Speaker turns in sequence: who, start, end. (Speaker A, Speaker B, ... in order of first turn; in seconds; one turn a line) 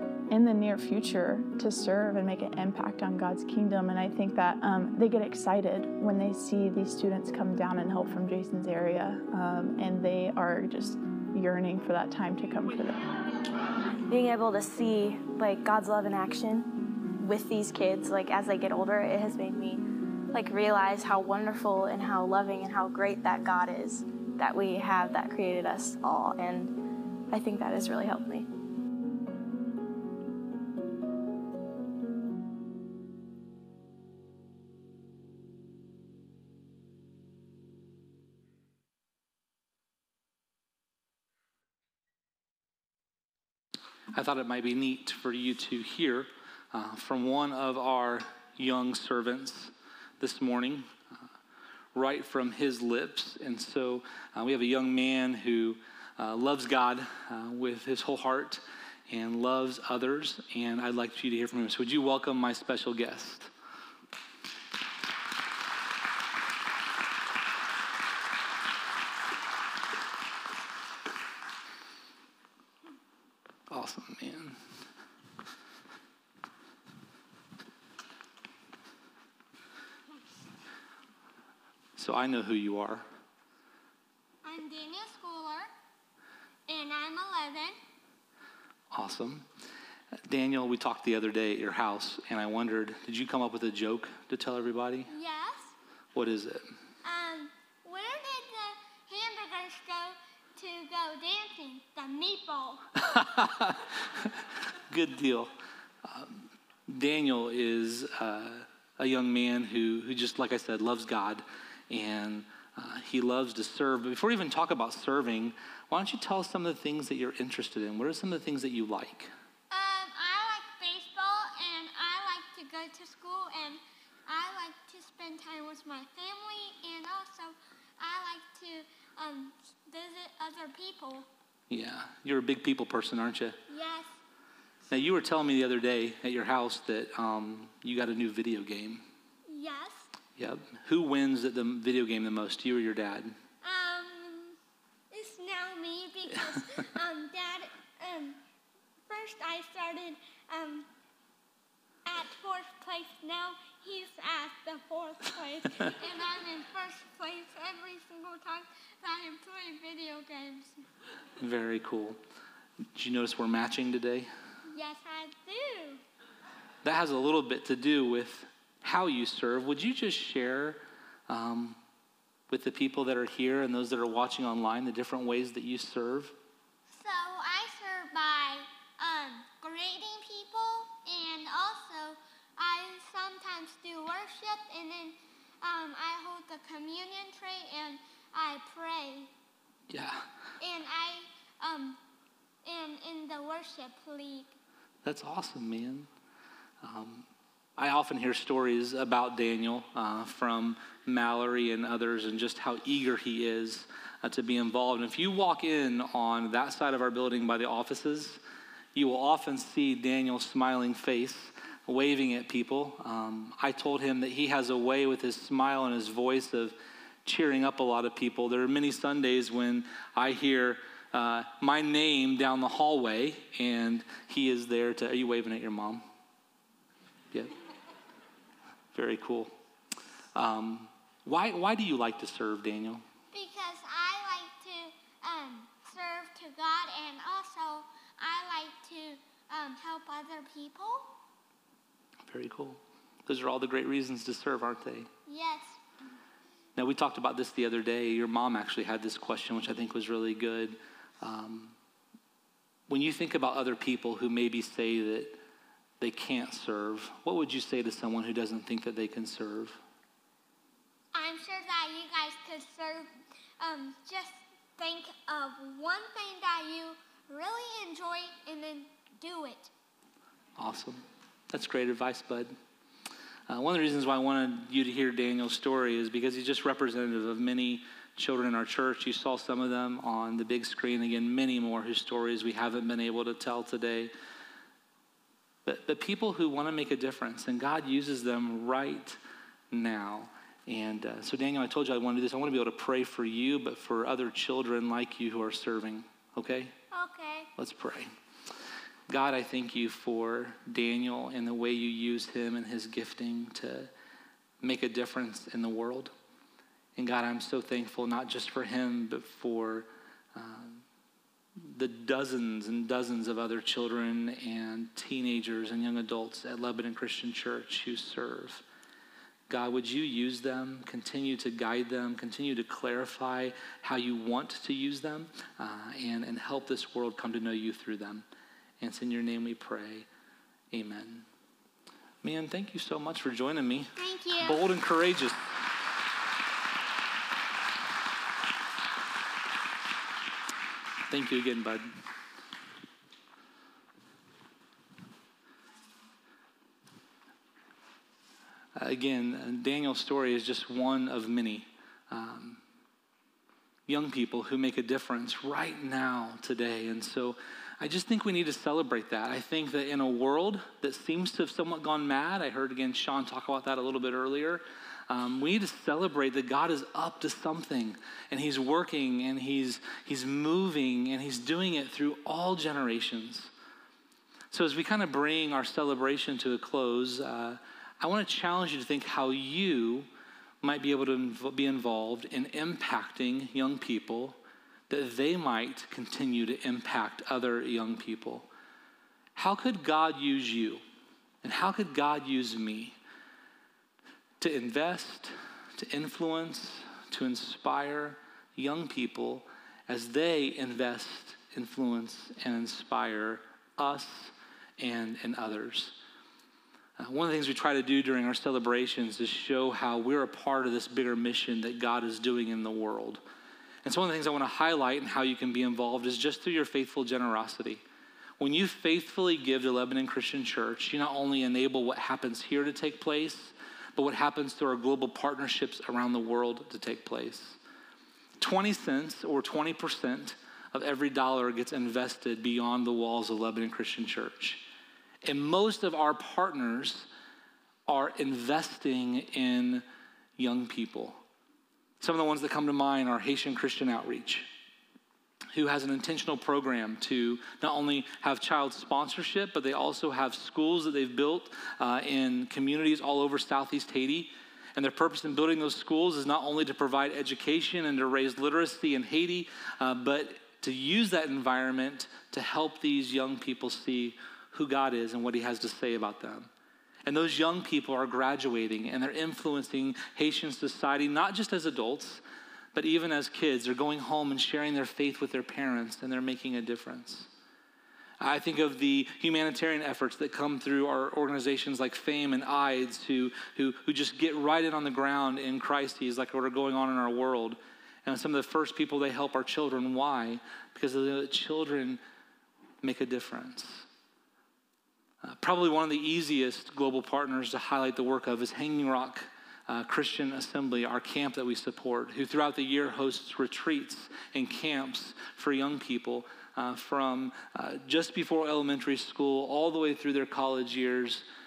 Speaker A: 0.3-13.1
Speaker B: 14.1-26.7
Speaker B: 27.3-28.5
Speaker C: 44.1-50.9
Speaker C: 52.0-63.5
Speaker C: 73.7-74.6
Speaker C: 82.0-83.1
Speaker D: 84.4-85.7
Speaker D: 86.7-87.8
Speaker C: 88.9-89.5
Speaker C: 90.3-95.1
Speaker D: 95.1-95.8
Speaker C: 96.2-96.7
Speaker D: 97.0-102.9
Speaker C: 103.0-104.3
Speaker C: 104.9-105.5
Speaker C: 106.0-119.3
Speaker D: 119.7-131.3
Speaker C: 131.7-133.6
Speaker D: 133.7-134.2
Speaker C: 134.9-139.0
Speaker D: 139.5-140.1
Speaker C: 140.4-143.3
Speaker D: 143.6-144.6
Speaker D: 145.1-148.4
Speaker D: 149.1-150.9
Speaker D: 152.1-160.8
Speaker C: 161.4-162.2
Speaker C: 162.9-164.3
Speaker D: 164.7-166.0
Speaker C: 166.8-171.8
Speaker C: 172.5-176.3
Speaker D: 176.9-189.3
Speaker C: 189.9-190.2
Speaker D: 190.6-192.0
Speaker D: 192.7-194.5
Speaker C: 195.1-196.1
Speaker C: 196.8-197.3
Speaker C: 197.8-208.4
Speaker C: 208.9-226.0
Speaker C: 228.9-229.5
Speaker C: 230.3-233.0
Speaker D: 233.3-241.1
Speaker C: 242.3-245.1
Speaker D: 245.3-245.8
Speaker C: 246.8-251.7
Speaker C: 252.9-255.4
Speaker C: 256.0-259.8
Speaker D: 261.1-263.1
Speaker D: 263.6-269.7
Speaker C: 270.6-272.5
Speaker C: 273.5-284.1
Speaker C: 285.6-289.2
Speaker C: 289.7-296.7
Speaker D: 296.9-297.5
Speaker C: 297.6-298.1
Speaker C: 299.1-303.9
Speaker C: 304.6-306.1
Speaker C: 307.0-310.8
Speaker C: 311.6-318.6
Speaker C: 319.5-328.3
Speaker C: 328.8-330.1
Speaker C: 330.7-331.3
Speaker C: 332.2-335.4
Speaker D: 334.0-334.6
Speaker C: 341.1-341.9
Speaker C: 348.8-352.6
Speaker C: 353.9-373.5
Speaker C: 374.5-380.1
Speaker C: 380.6-384.4
Speaker C: 384.9-388.5
Speaker C: 389.4-390.8
Speaker C: 391.4-393.0
Speaker C: 394.4-406.0
Speaker C: 407.0-413.2
Speaker C: 413.8-417.8
Speaker C: 418.4-427.6
Speaker C: 428.4-434.6
Speaker C: 435.2-437.1
Speaker C: 437.9-439.9
Speaker C: 440.4-441.2
Speaker C: 442.0-444.5
Speaker C: 445.5-466.5
Speaker C: 467.1-472.2
Speaker C: 472.8-477.3
Speaker C: 478.2-492.0
Speaker C: 492.8-493.9
Speaker C: 495.2-511.3